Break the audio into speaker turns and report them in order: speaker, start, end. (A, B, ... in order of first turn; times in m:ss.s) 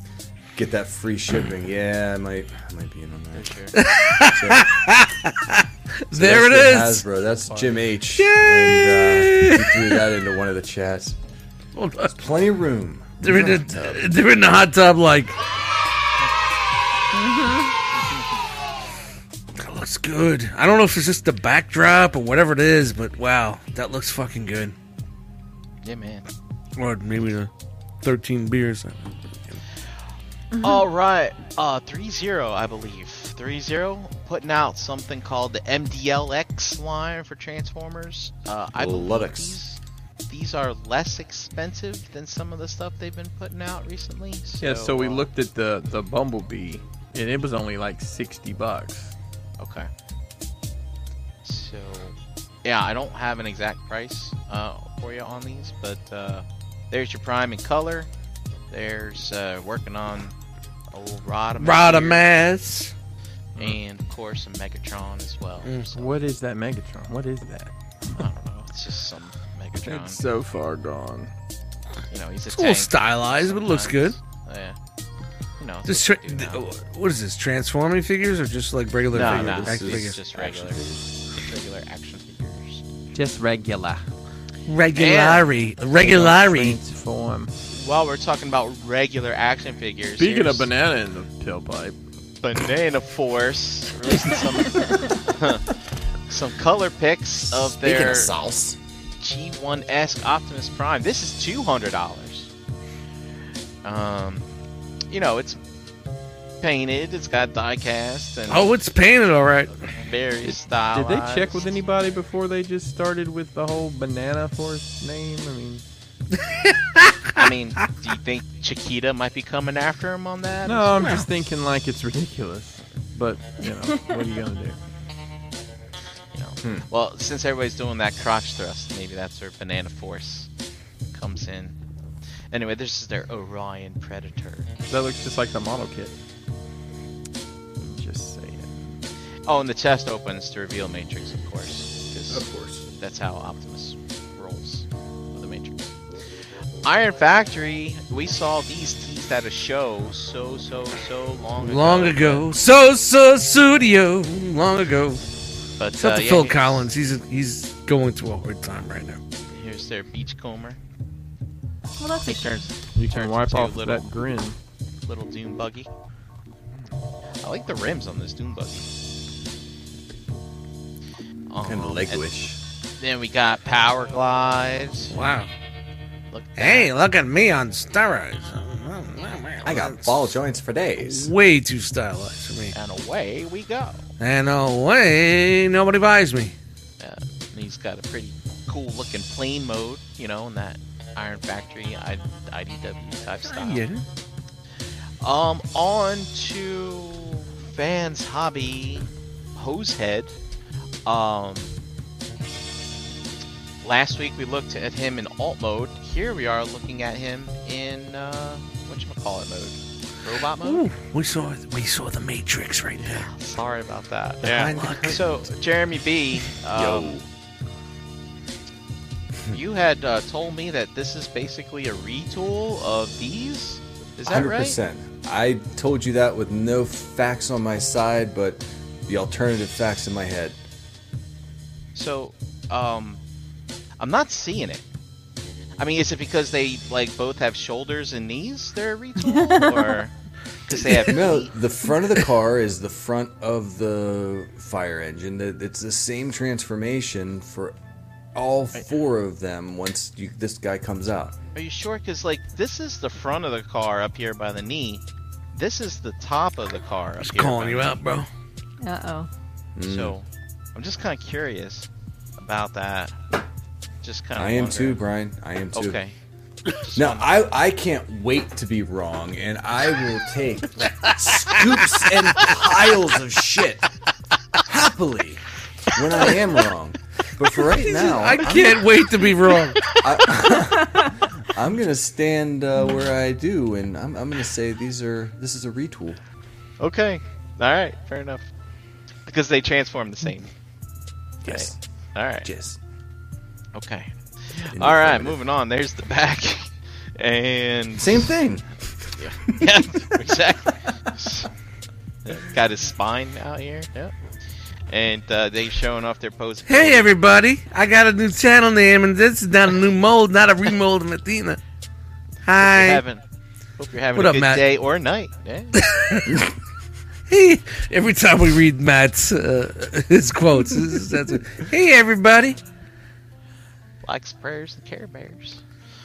0:00.6-0:03.6 A
0:03.3-0:03.8 B
0:03.8-0:07.0 C
0:04.2-0:04.7 A
0:06.1-0:11.2 A
0:08.1-0:10.0 C
0:11.8-0:12.2 C
0:12.2-0:14.1 A
0:13.2-0:15.4 C
0:17.1-0:17.7 D
0:19.6-0:24.8 C
0:25.8-0:26.3 B
0:26.8-0:27.5 C
0:28.0-0:29.6 C
0:30.5-0:30.8 D
0:30.6-0:45.3 B
0:38.8-0:39.6 A
0:44.6-0:49.1 E
0:49.6-0:49.9 B
0:51.4-0:58.1 B
0:58.7-1:00.3 B
1:00.9-1:02.2 B
1:01.6-1:02.9 C
1:03.6-1:06.1 B
1:05.6-1:05.9 C
1:05.9-1:08.2 E
1:08.1-1:10.2 B
1:09.8-1:11.3 E
1:12.1-1:14.8 B
1:12.5-1:14.2 C
1:15.6-1:16.6 B
1:15.9-1:20.2 C
1:19.1-1:22.8 B
1:19.1-1:21.0 A
1:23.2-1:24.0 E
1:24.7-1:26.8 C
1:24.9-1:25.5 B
1:26.0-1:27.5 E
1:27.7-1:30.7 B
1:30.2-1:32.0 E
1:32.4-1:35.8 B
1:36.3-1:38.3 B
1:37.5-1:38.8 A
1:39.2-1:42.5 B
1:43.8-1:44.5 B
1:45.1-1:45.6 B
1:46.6-1:48.7 B
1:48.5-1:49.8 C
1:49.8-1:51.7 B
1:50.4-1:55.8 E
1:56.4-1:57.4 C
1:57.4-2:01.2 B
2:00.6-2:04.8 E
2:01.0-2:01.3 C
2:06.3-2:10.5 B
2:11.1-2:11.8 B
2:12.5-2:14.7 B
2:14.9-2:16.1 E
2:17.8-2:19.0 E
2:19.5-2:22.4 B
2:22.3-2:22.9 A
2:23.0-2:25.9 B
2:26.8-2:32.5 B
2:31.6-2:35.2 C
2:35.8-2:36.9 B
2:36.0-2:39.2 C
2:39.5-2:40.8 B
2:42.0-2:42.7 D
2:42.2-2:44.1 B
2:42.9-2:44.6 E
2:45.1-2:45.9 B
2:47.4-2:48.9 B
2:51.5-2:52.2 B
2:51.6-2:52.6 A
2:53.0-2:55.2 B
2:55.1-2:55.5 C
2:56.3-2:56.9 B
2:56.6-3:00.3 C
2:59.6-3:01.3 A
3:01.0-3:02.8 C
3:02.7-3:04.0 B
3:04.2-3:06.6 C
3:07.0-3:13.8 B
3:13.5-3:14.0 C
3:15.2-3:20.3 B
3:21.1-3:21.7 B
3:23.8-3:30.8 B
3:30.6-3:33.3 C
3:33.0-3:37.2 B
3:34.4-3:35.5 A
3:34.8-3:35.2 C
3:36.7-3:37.3 A
3:39.5-3:44.8 B
3:44.2-3:50.6 A
3:52.0-3:53.2 B
3:54.0-3:54.8 B
3:55.8-4:00.1 B
3:59.3-4:00.0 D
4:00.7-4:01.5 B
4:01.0-4:07.8 A
4:08.4-4:11.4 A
4:11.6-4:18.0 B
4:17.2-4:18.3 C
4:18.8-4:19.3 D
4:19.8-4:20.2 A
4:19.8-4:23.2 B
4:24.0-4:25.0 B
4:24.4-4:26.0 A
4:25.7-4:26.1 B
4:26.7-4:27.4 B
4:26.9-4:33.9 A
4:34.7-4:39.0 A
4:37.8-4:40.0 C
4:40.0-4:46.2 A
4:46.8-4:48.5 B
4:49.3-4:50.5 B
4:51.4-4:51.8 A
4:51.4-4:52.5 B
4:52.4-4:52.8 A
4:53.8-4:58.3 B
4:54.7-4:55.4 A
4:58.0-4:59.3 A
4:59.2-5:01.5 B
5:02.2-5:04.1 B
5:04.9-5:07.1 B
5:06.7-5:11.6 C
5:12.4-5:13.0 C
5:12.6-5:13.2 B
5:13.8-5:15.8 B
5:14.2-5:14.6 C
5:15.8-5:16.5 C
5:17.3-5:22.6 C
5:24.0-5:25.6 B